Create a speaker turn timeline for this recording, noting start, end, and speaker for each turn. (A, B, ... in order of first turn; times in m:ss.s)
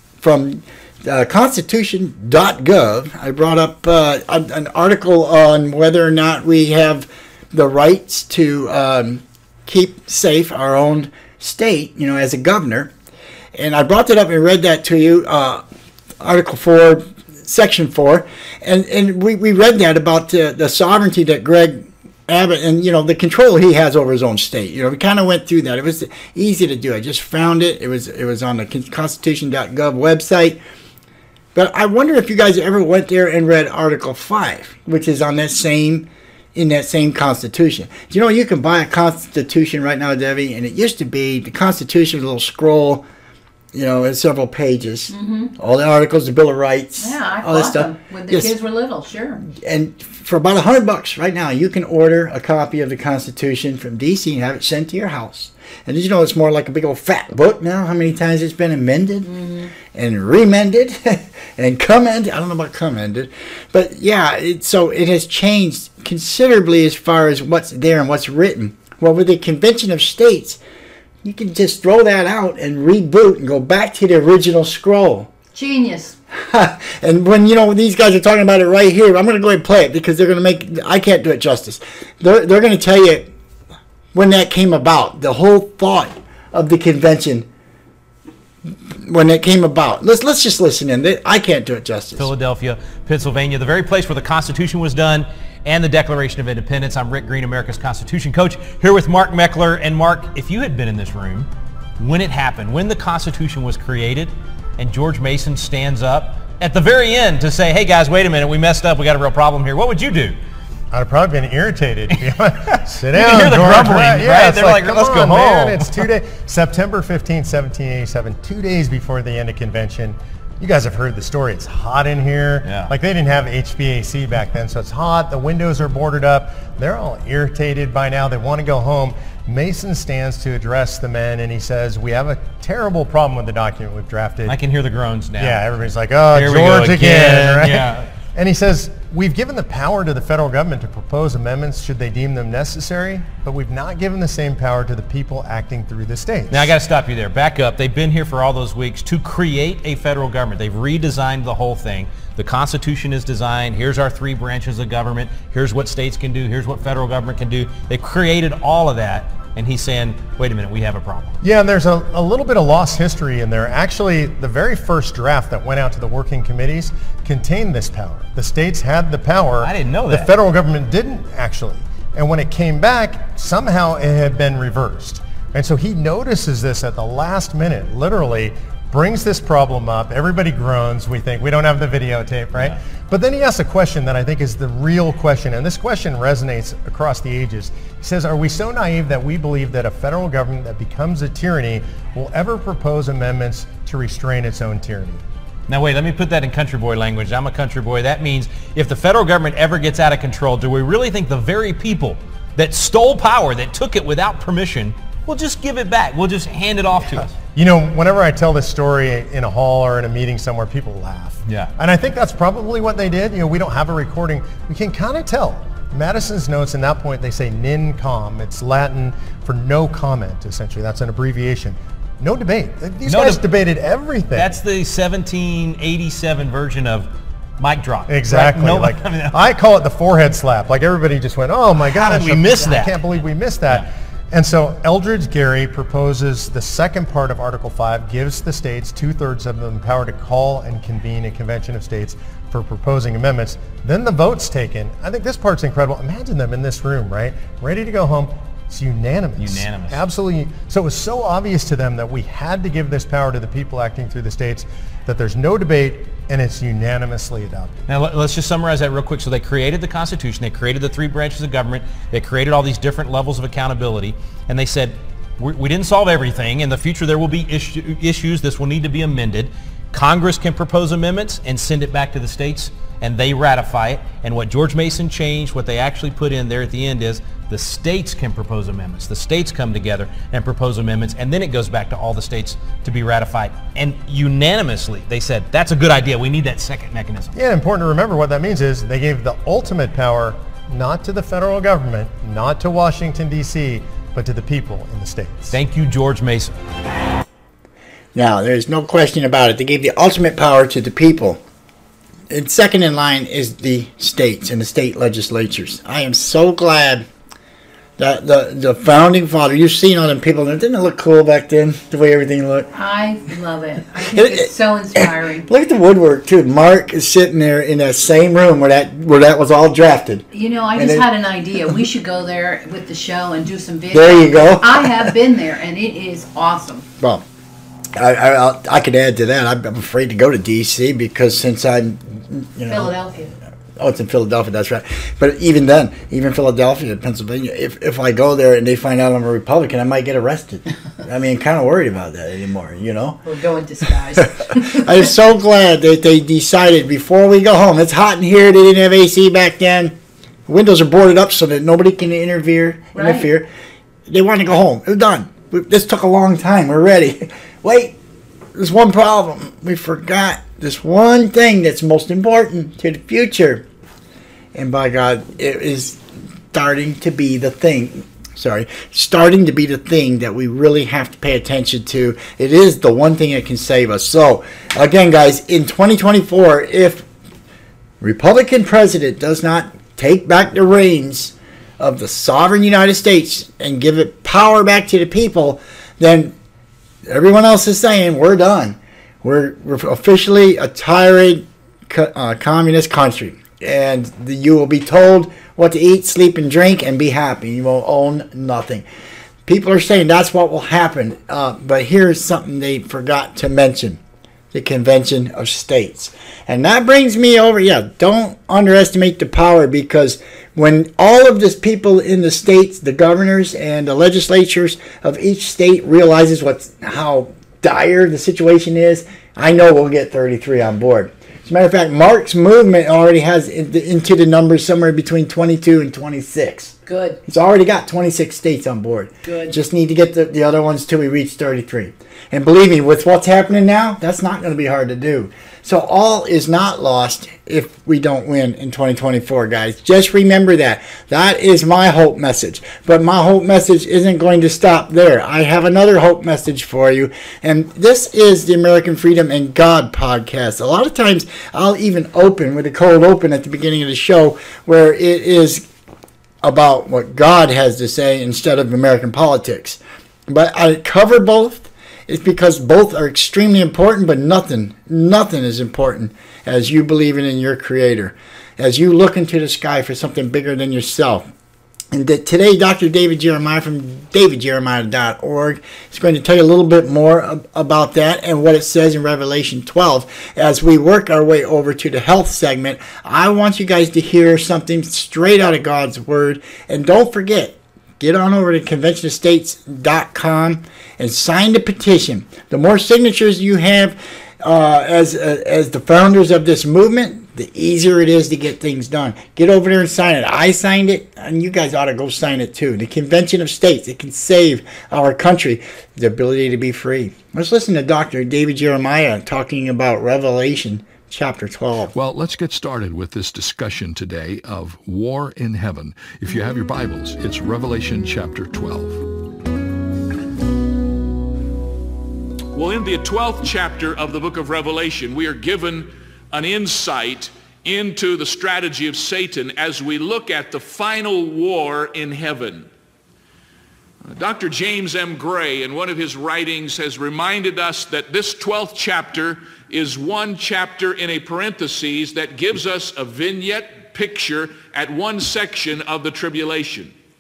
0:00.2-0:12.9 A
0:13.6-0:15.6 A
0:16.2-0:30.6 A
0:31.6-0:43.1 A
0:43.7-0:48.5 A
0:45.1-0:45.5 B
0:47.0-0:49.4 B
0:49.5-0:59.3 A
0:59.2-0:59.7 B
0:59.8-1:10.6 A
1:11.2-1:15.3 A
1:15.5-1:16.2 B
1:16.3-1:23.3 A
1:24.1-1:27.5 A
1:28.9-1:32.3 A
1:32.2-1:50.4 C
1:50.9-2:14.6 D
1:52.1-1:56.1 C
2:02.6-2:02.9 C
2:14.4-2:15.6 C
2:15.4-2:26.7 D
2:16.3-2:18.1 C
2:26.5-2:41.4 C
2:41.4-3:15.2 D
2:49.6-2:50.3 C
3:15.7-3:27.4 C
3:27.1-3:44.5 D
3:31.5-3:31.7 C
3:43.0-3:43.5 C
3:44.3-3:49.5 C
3:48.1-4:17.7 D
3:51.8-3:53.1 C
4:09.4-4:10.0 C
4:17.9-4:47.3 C
4:47.4-4:55.6 D
4:55.5-4:56.6 C
4:58.2-5:01.4 A
5:02.3-5:07.1 A
5:08.0-5:12.7 A
5:12.7-5:15.5 B
5:14.1-5:21.1 A
5:20.3-5:26.8 B
5:23.9-5:25.2 A
5:27.0-5:27.2 A
5:28.0-5:32.9 A
5:32.7-5:33.3 B
5:33.8-5:43.2 A
5:43.2-5:45.1 B
5:44.5-5:50.0 A
5:50.5-5:53.5 A
5:52.9-5:53.3 B
5:54.1-5:58.0 A
5:58.5-6:03.6 A
6:04.5-6:06.0 A
6:06.5-6:17.1 A
6:18.0-6:26.4 A
6:27.1-6:38.8 A
6:39.5-6:44.0 A
6:44.5-7:35.6 A
7:06.9-7:07.2 B
7:09.2-7:09.6 B
7:36.4-7:51.3 A
7:51.9-8:31.9 A
8:31.9-8:39.1 E
8:42.5-8:52.7 F
8:54.1-9:06.9 F